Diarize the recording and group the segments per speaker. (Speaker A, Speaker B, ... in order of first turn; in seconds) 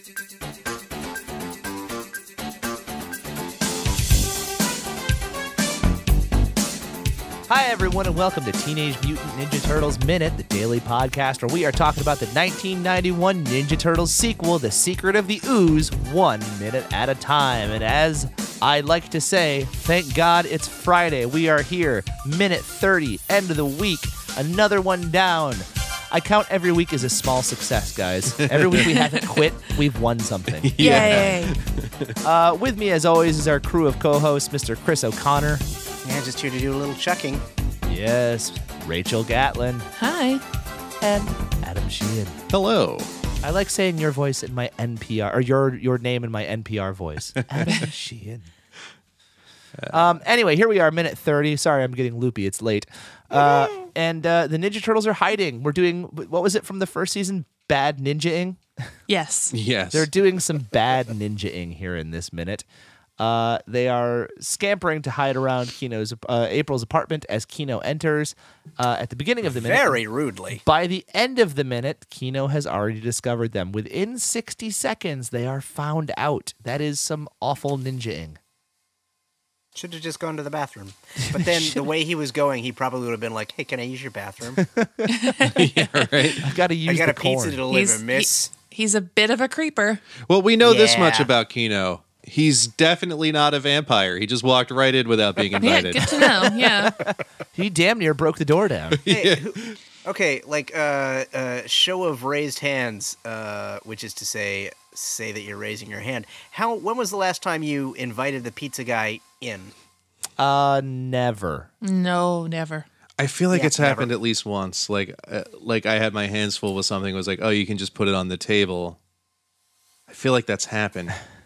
Speaker A: 7.5-31.4, 32.2-35.6, 37.9-39.9, 41.0-42.4, 43.4-48.5, 49.9-58.6, 59.9-62.6, 63.2-70.0, 70.6-78.4, 81.2-81.8, 84.6-85.5, 86.4-87.6, 96.2-99.0, 110.4-111.7
Speaker B: 28.4-28.9, 30.6-32.1, 42.5-43.1, 59.5-60.1, 85.4-86.5, 90.3-96.3, 98.9-99.8, 113.2-119.0, 120.1-121.2
Speaker C: 28.9-29.4, 30.8-31.6, 40.0-40.4, 59.1-59.5, 85.0-86.3, 87.7-90.0, 95.6-97.0, 111.8-112.8
Speaker D: 36.0-37.4, 69.5-70.6, 79.7-84.7, 86.8-88.5, 90.6-91.3, 99.1-109.7, 113.5-114.1